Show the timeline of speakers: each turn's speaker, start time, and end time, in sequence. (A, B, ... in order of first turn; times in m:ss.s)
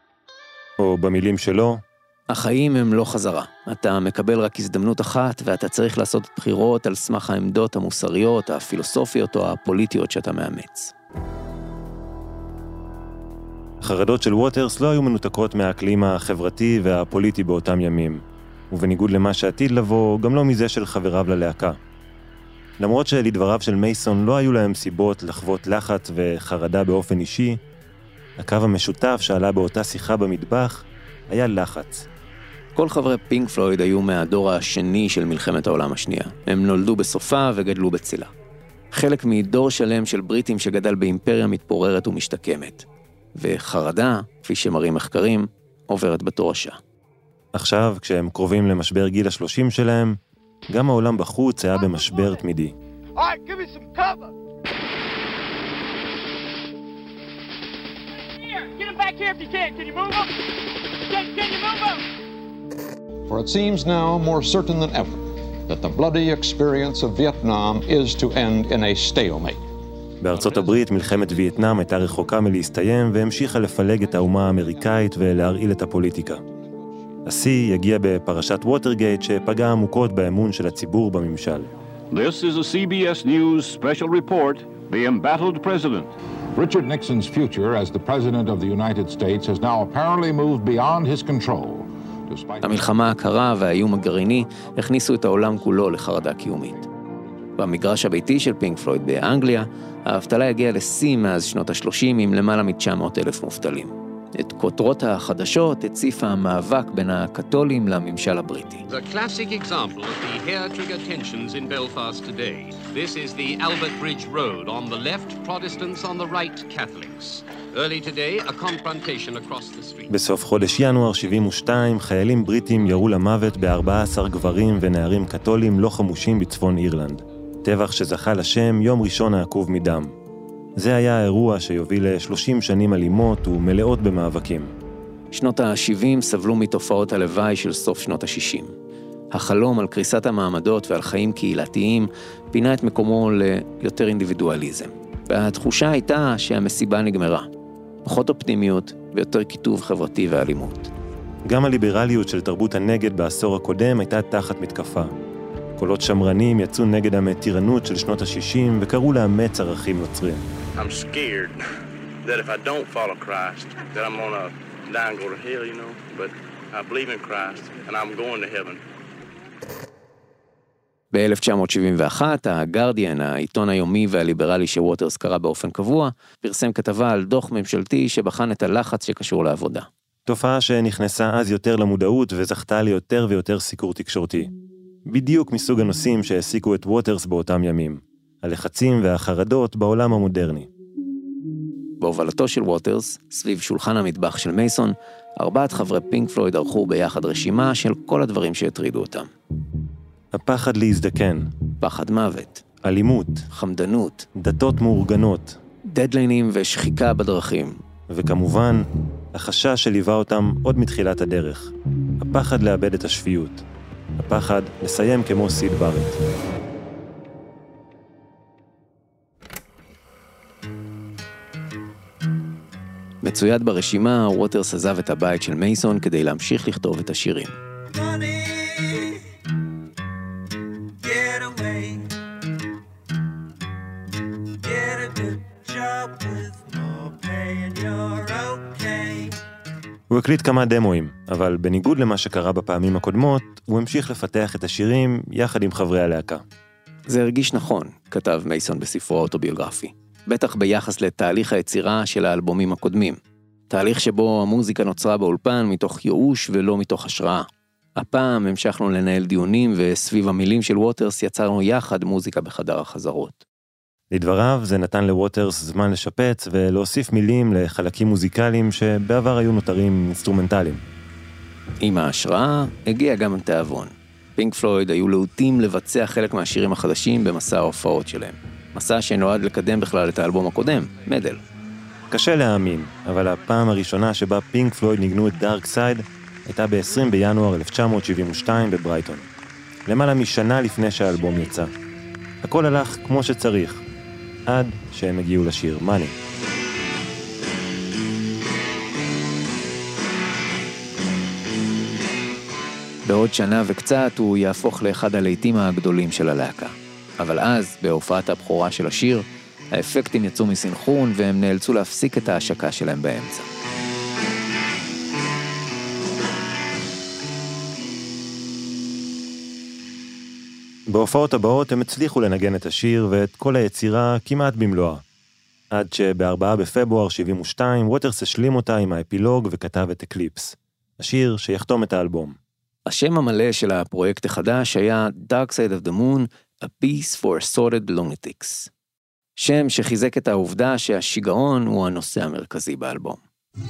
0:00.8-0:01.8 A
0:02.3-0:10.9 B
0:13.8-0:21.8 A
0:22.8-0:27.6 A
0:28.4-0:32.1 A
0:32.7-0:38.3 B
0:38.9-0:42.8 B
0:43.4-0:46.8 B
0:47.5-0:50.2 A
0:50.7-0:52.7 A
0:53.2-0:54.3 C
0:58.4-1:00.3 C
1:01.1-1:02.0 C
1:03.3-1:09.6 D
1:10.2-1:16.4 A
1:17.2-1:21.7 A
1:22.1-1:26.1 E
1:26.5-1:32.7 F
1:32.6-1:36.9 B
1:37.6-1:48.8 B
1:48.9-2:00.1 G
2:00.1-2:10.1 A
2:10.8-2:14.7 A
2:15.3-2:18.7 B
2:19.3-2:27.5 B
2:28.0-2:30.9 B
2:31.4-2:35.1 A
2:35.8-2:40.4 A
2:40.8-2:41.6 H
2:42.2-2:48.8 H
2:51.1-2:59.9 B
3:00.2-3:04.5 A
3:05.0-3:10.7 A
3:12.0-3:19.3 B
3:20.3-3:21.5 A
3:21.8-3:22.6 B
3:22.8-3:23.5 A
3:23.5-3:24.3 B
3:24.3-3:25.6 A
3:25.8-3:27.8 B
3:28.1-3:33.6 A
3:34.2-3:36.2 A
3:43.2-3:47.5 B
3:47.9-3:49.2 C
3:51.0-3:52.1 C
3:54.6-3:59.3 C
4:00.1-4:06.4 A
4:07.1-4:13.2 B
4:13.7-4:23.4 B
4:24.1-4:30.8 A
4:31.8-4:41.4 B
4:42.1-4:49.3 A
4:49.8-4:51.7 A
4:52.4-4:53.8 A
4:54.5-4:56.1 A
5:03.0-5:13.5 B
5:20.9-5:25.0 A
5:25.7-5:32.4 A
5:32.8-5:38.7 B
5:39.4-5:43.2 B